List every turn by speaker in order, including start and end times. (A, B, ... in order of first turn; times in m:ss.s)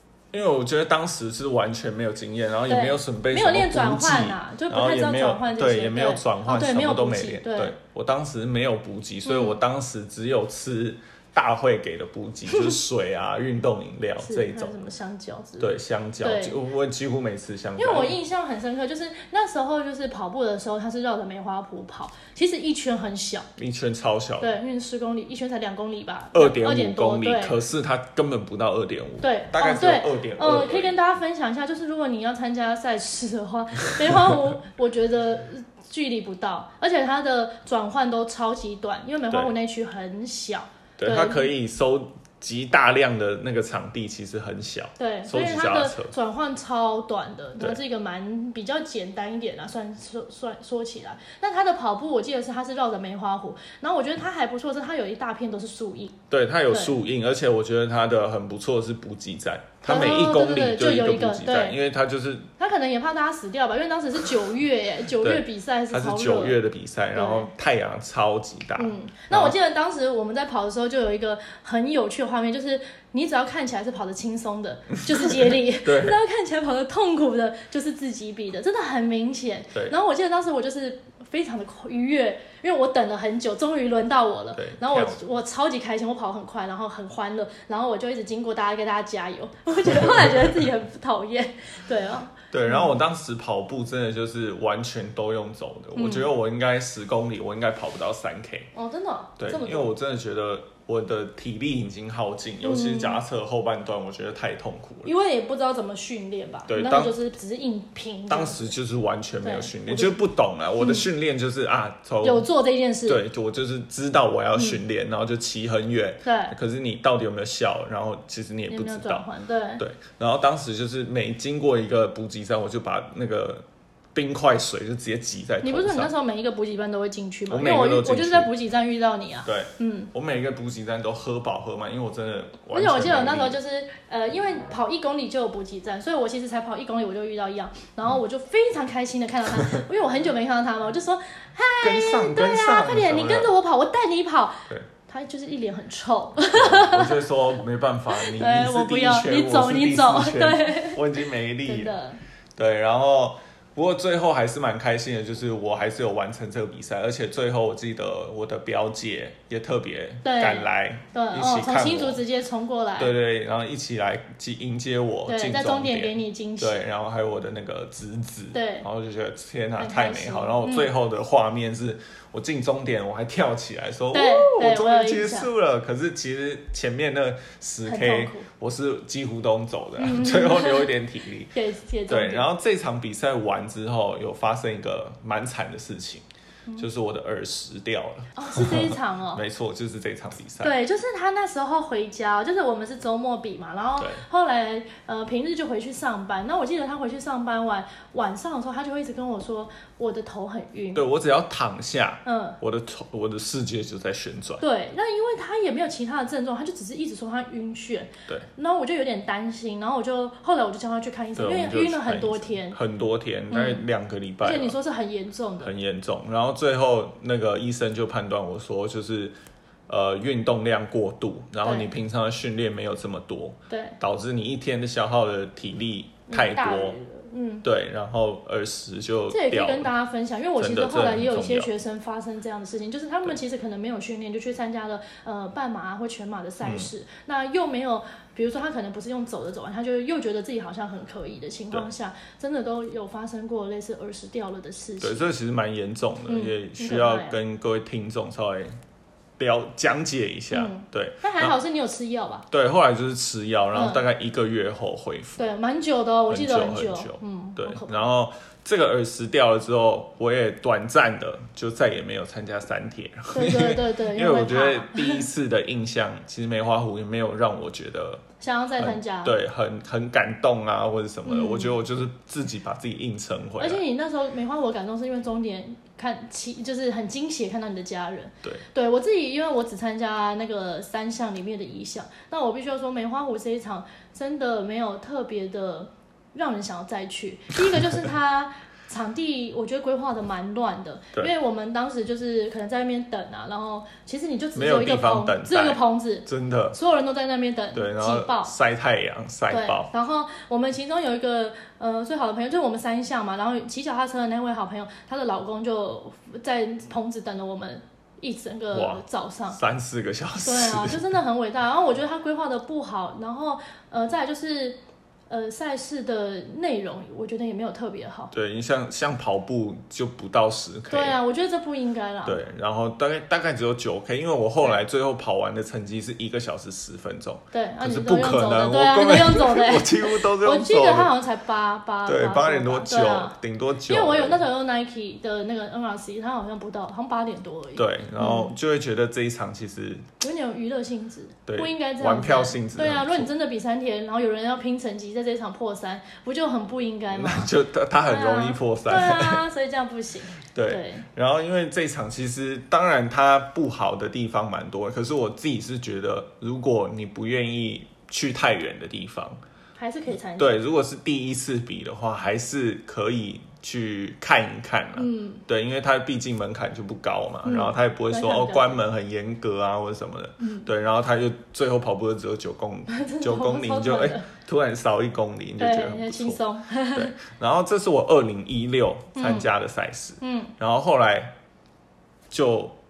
0:00.3-0:14.8 A
0:02.7-0:07.8 B
0:09.2-0:09.6 B
0:14.2-0:16.6 B
0:15.6-0:18.2 A
0:17.8-0:23.5 B
0:23.6-0:24.6 A
0:24.4-0:27.6 B
0:26.3-0:31.0 A
0:29.2-0:41.5 B
0:34.1-0:34.4 A
0:41.0-0:46.1 A
0:45.0-0:56.2 B
0:56.3-1:02.5 A
0:56.7-0:57.0 B
0:59.9-1:01.8 B
1:02.6-1:06.6 B
1:05.2-1:09.6 A
1:07.2-1:07.5 B
1:08.8-1:33.0 B
1:15.1-1:16.2 A
1:24.5-1:25.2 A
1:29.8-1:30.5 A
1:32.5-1:38.7 A
1:36.0-1:36.3 B
1:38.7-1:39.9 B
1:39.4-1:45.1 A
1:42.6-1:43.2 B
1:45.0-1:48.7 B
1:46.7-1:47.2 A
1:48.3-1:52.5 A
1:49.4-1:50.2 B
1:50.8-1:51.0 B
1:52.2-1:53.2 B
1:53.0-1:59.3 A
1:56.2-1:56.6 B
1:58.7-1:59.8 B
1:59.8-2:06.1 A
2:05.6-2:10.1 B
2:07.5-2:08.5 A
2:09.4-2:13.6 A
2:12.7-2:27.2 B
2:21.8-2:23.5 A
2:26.5-2:32.0 A
2:28.1-2:31.0 B
2:31.6-2:32.2 B
2:32.6-2:42.2 A
2:40.2-2:43.2 B
2:43.0-3:01.6 A
2:45.3-2:46.8 B
2:48.5-2:48.9 B
2:49.8-2:50.9 B
2:54.1-2:55.5 B
2:57.8-2:58.5 B
3:00.0-3:00.9 B
3:01.5-3:02.5 B
3:02.1-3:06.2 A
3:06.8-3:10.8 A
3:08.4-3:09.4 B
3:10.6-3:21.0 B
3:14.0-3:14.2 A
3:20.9-3:24.6 A
3:22.2-3:22.6 B
3:24.6-3:32.8 B
3:31.4-3:34.8 A
3:33.5-3:33.8 B
3:34.4-3:35.7 B
3:35.6-3:39.4 A
3:39.9-3:47.0 A
3:41.6-3:41.9 B
3:43.7-3:44.0 B
3:46.3-3:47.7 B
3:47.6-3:49.9 A
3:49.3-4:05.3 B
3:50.6-3:51.7 A
3:56.6-3:56.9 A
4:05.0-4:08.7 A
4:06.3-4:07.4 B
4:09.4-4:11.6 A
4:10.5-4:12.5 B
4:12.5-4:15.4 A
4:13.7-4:14.0 B
4:15.4-4:18.0 B
4:16.3-4:28.2 A
4:23.3-4:25.3 B
4:28.4-4:29.4 B
4:28.8-4:33.8 A
4:31.3-4:31.8 B
4:33.6-4:58.5 B
4:54.6-4:56.8 A
4:57.7-4:59.9 A
4:59.5-5:09.6 B
5:08.7-5:11.1 A
5:10.4-5:14.8 B
5:15.3-5:18.3 B
5:18.3-5:21.2 A
5:20.9-5:22.4 B
5:22.2-5:31.2 A
5:27.5-5:33.4 B
5:32.0-5:34.4 A
5:33.9-5:38.5 B
5:37.8-5:40.1 A
5:40.2-5:51.1 B
5:41.5-5:43.3 A
5:47.1-5:49.4 A
5:50.5-5:59.4 A
5:59.8-6:00.6 B
6:00.4-6:16.4 A
6:05.0-6:05.4 B
6:07.4-6:08.8 B
6:10.4-6:10.7 B
6:12.9-6:14.3 B
6:15.6-6:17.2 B
6:16.9-6:21.4 A
6:19.2-6:19.5 B
6:20.2-6:20.5 B
6:22.3-6:22.8 A